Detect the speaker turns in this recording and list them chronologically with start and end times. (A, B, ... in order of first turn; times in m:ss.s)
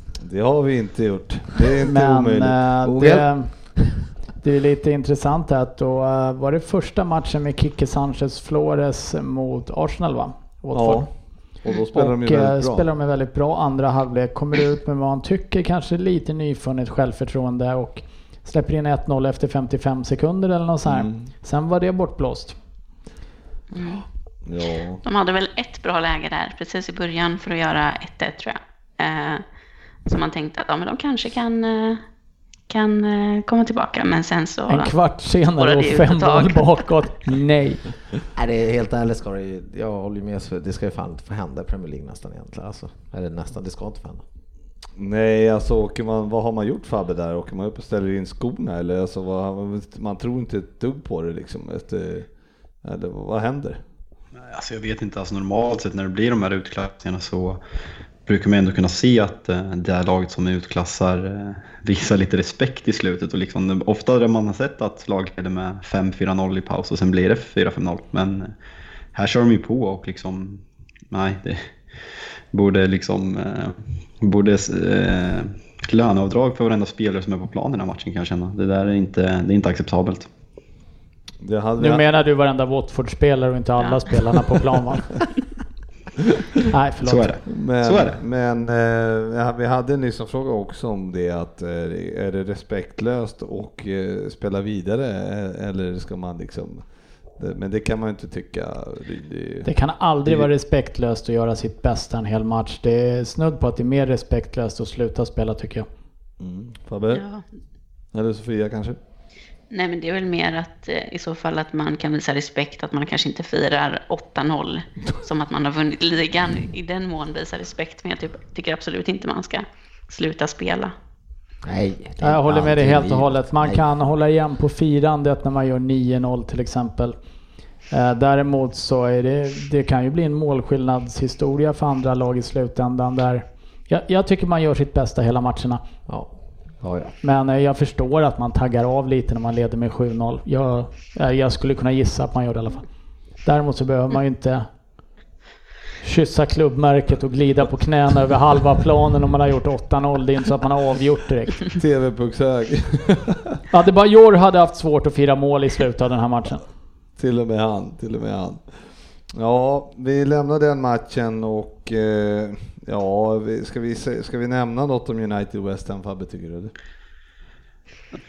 0:00.2-0:02.6 A
0:01.9-0:11.1 B
0:02.8-0:03.9 C
0:10.7-0:12.9 A
0:11.9-0:22.6 B
0:20.9-0:21.3 A
0:23.7-0:24.0 D
0:24.5-0:25.0 A
0:25.0-0:29.4 D
0:30.0-0:32.0 D
0:32.7-0:34.9 D
0:34.7-0:37.9 B
0:35.6-0:36.9 D
0:38.3-0:44.2 C
0:45.0-0:52.3 A
0:52.8-0:53.8 A
0:54.4-0:57.6 E
0:58.3-1:08.5 E
1:09.1-1:11.7 E
1:12.5-1:20.3 E
1:21.4-1:22.0 A
1:21.8-1:25.1 B
1:26.7-1:27.4 B
1:27.0-1:28.2 E
1:27.5-1:36.9 A
1:37.4-1:39.7 A
1:39.6-1:45.9 B
1:46.4-1:47.2 A
1:47.1-1:47.4 D
1:48.1-1:49.0 A
1:49.7-2:00.9 D
2:01.6-2:03.9 C
2:02.2-2:07.2 B
2:07.9-2:15.8 B
2:16.1-2:17.2 C
2:17.2-2:22.9 B
2:23.4-2:24.7 B
2:26.0-2:31.6 B
2:31.7-2:33.6 A
2:33.7-2:36.6 B
2:37.2-2:38.7 A
2:39.3-2:46.7 A